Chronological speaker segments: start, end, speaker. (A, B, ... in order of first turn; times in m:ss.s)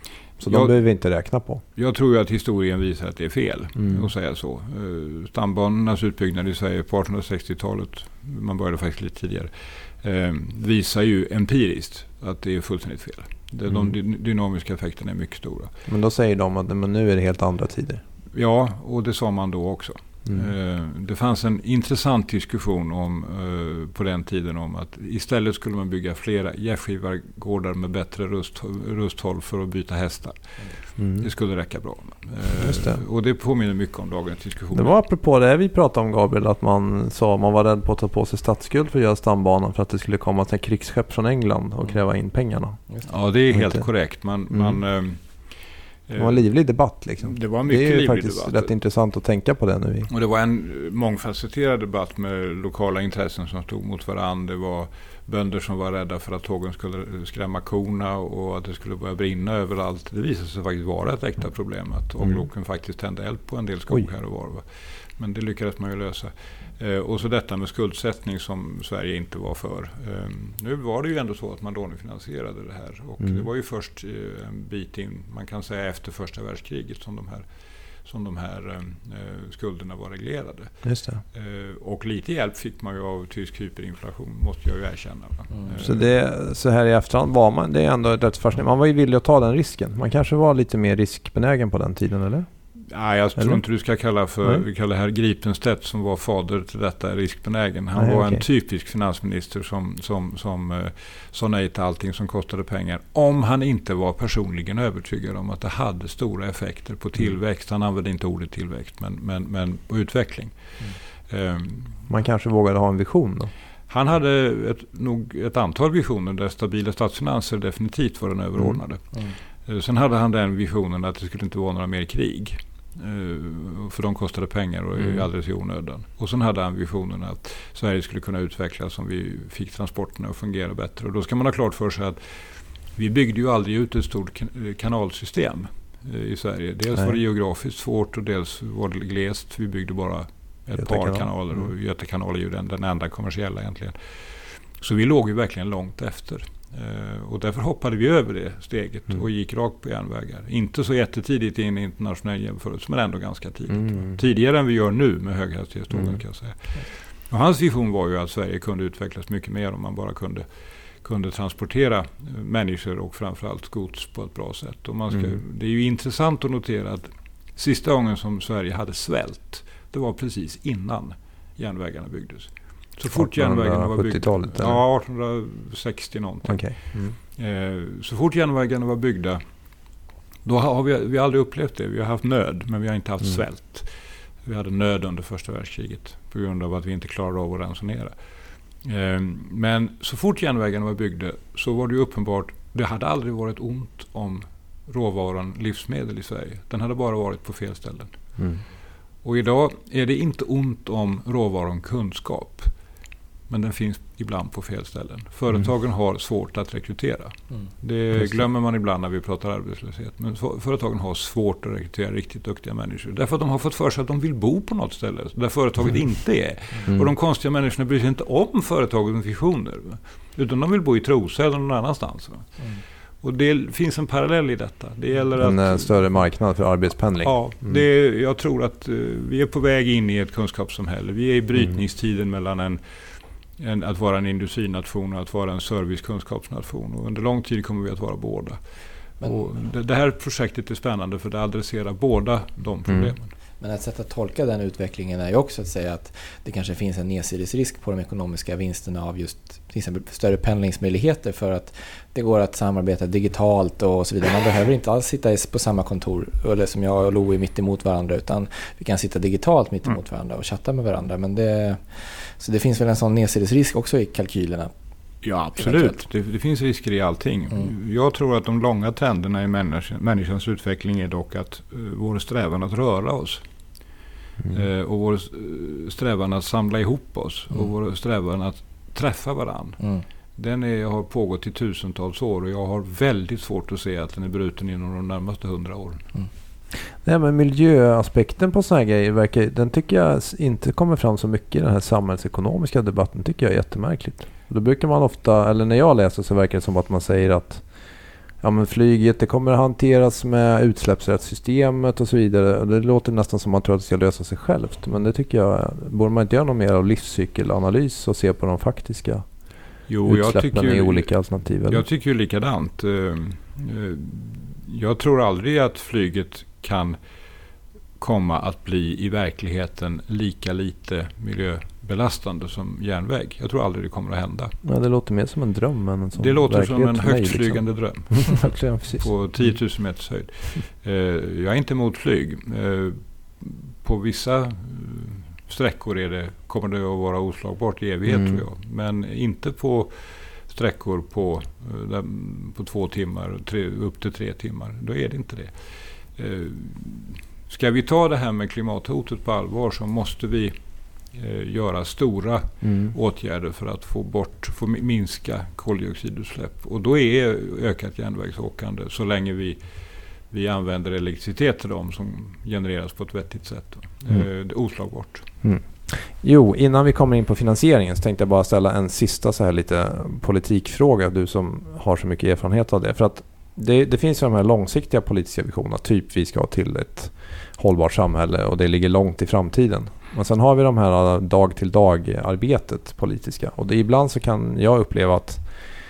0:00.4-0:01.6 A
0:00.5-0:00.7 B
0:01.8-0:15.7 B
0:03.8-0:04.1 A
0:13.7-0:14.0 A
0:15.9-0:18.0 A
0:18.3-0:35.0 B
0:31.0-0:31.3 A
0:32.6-0:33.0 A
0:34.7-0:42.8 A
0:43.0-0:46.4 B
0:43.5-0:43.9 A
0:44.5-0:44.8 A
0:46.2-0:50.1 A
0:47.2-0:48.7 B
0:50.1-1:17.5 B
1:18.0-1:20.8 B
1:20.8-1:21.2 A
1:21.3-1:26.1 B
1:25.8-1:32.5 A
1:32.9-1:51.9 B
1:33.4-1:33.6 A
1:38.0-1:38.4 A
1:52.1-1:53.5 A
1:53.9-2:40.5 B
2:20.8-2:21.2 A
2:33.8-2:34.1 A
2:41.0-2:59.4 B
2:53.1-2:54.8 A
2:56.4-2:57.2 A
3:00.4-3:03.9 B
3:04.4-3:18.1 B
3:19.2-3:22.7 B
3:23.5-3:42.7 B
3:43.2-3:46.4 B
3:45.4-3:47.8 A
3:47.1-3:53.0 B
3:53.6-3:58.6 B
3:59.2-4:03.3 B
4:02.9-4:03.1 A
4:03.6-4:24.7 C
4:25.2-4:33.4 B
4:25.6-4:26.0 C
4:34.5-4:39.8 B
4:40.4-4:46.1 B
4:46.9-4:57.7 A
4:58.4-5:09.3 A
5:09.9-5:11.8 A
5:09.9-5:17.0 B
5:18.0-5:24.6 B
5:24.6-5:29.1 A
5:26.2-5:50.5 B
5:38.1-5:38.4 A
5:51.1-5:59.6 B
5:52.6-5:53.0 A
6:00.3-6:05.3 B
6:05.4-6:25.5 A